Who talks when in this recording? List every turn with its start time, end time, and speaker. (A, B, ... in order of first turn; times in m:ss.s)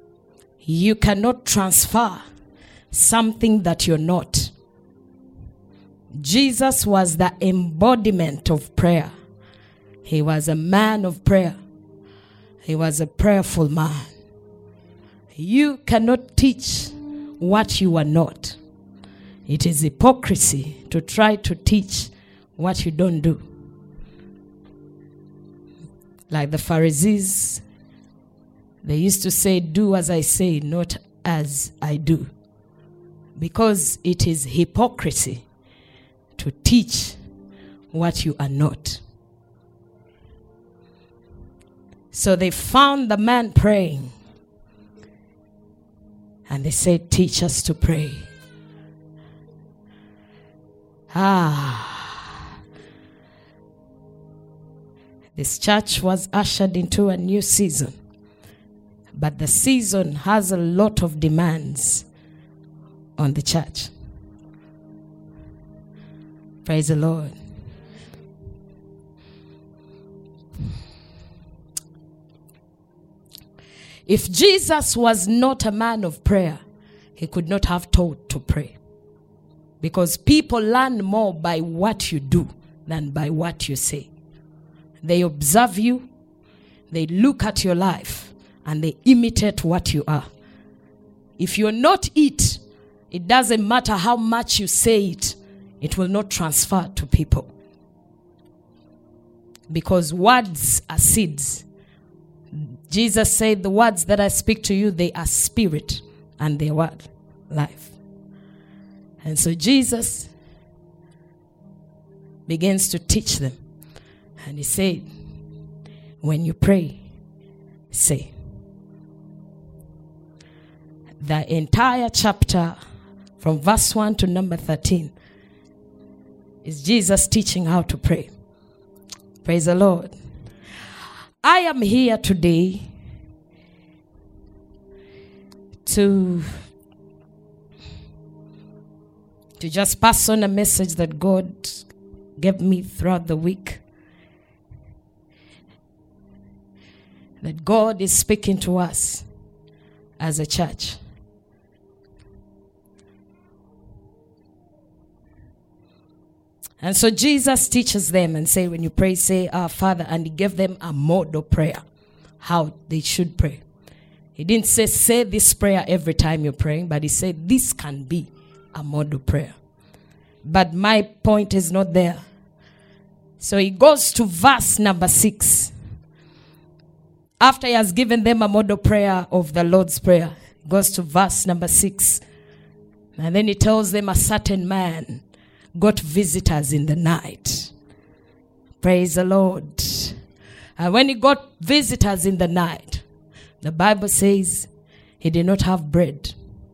0:00.6-0:02.2 A
0:02.9-0:04.5 A
0:06.2-0:09.1 A
0:10.0-0:11.6 A
0:12.6-0:14.1 A
0:15.4-0:18.6 A
0:19.5-0:23.4 A
0:26.3-0:27.6 A
0:28.8-0:32.3 A
0:33.4-0:35.4 A
0:36.4-0:37.2 A
0:37.9-0:39.0 A
0:42.1-0:44.1 A
0:46.5-0:48.3 A
0:51.1-0:52.2 A
0:55.4-0:58.0 A
0:59.1-1:02.1 A
1:03.2-1:03.9 A
1:06.6-1:07.4 A
1:14.1-1:16.6 A
1:17.2-1:18.8 A
1:19.8-1:24.1 A
1:25.0-1:26.1 A
1:26.9-1:30.3 A
1:31.4-1:32.6 A
1:33.1-1:37.5 A
1:39.7-1:41.6 A
1:42.9-1:47.9 A
1:49.2-1:50.3 A
1:52.5-1:53.6 A
1:54.4-1:55.1 A
1:56.2-1:57.0 A
1:57.9-1:58.3 A
2:01.2-2:02.8 A
2:03.4-2:05.1 A
2:06.6-2:08.3 A
2:09.4-2:10.1 A
2:11.4-2:12.9 A
2:15.8-2:16.5 A
2:19.6-2:21.8 A
2:22.4-2:23.8 A
2:27.4-2:29.2 A
2:30.2-2:31.0 A
2:36.8-2:41.8 A
2:42.4-2:43.6 A
2:44.4-2:49.6 A
2:50.4-2:52.2 A
2:53.4-2:55.7 A
2:57.4-3:02.2 A
3:03.2-3:05.2 A
3:05.8-3:07.7 A
3:08.8-3:10.2 A
3:10.8-3:13.0 A
3:13.6-3:14.7 A
3:15.2-3:16.4 A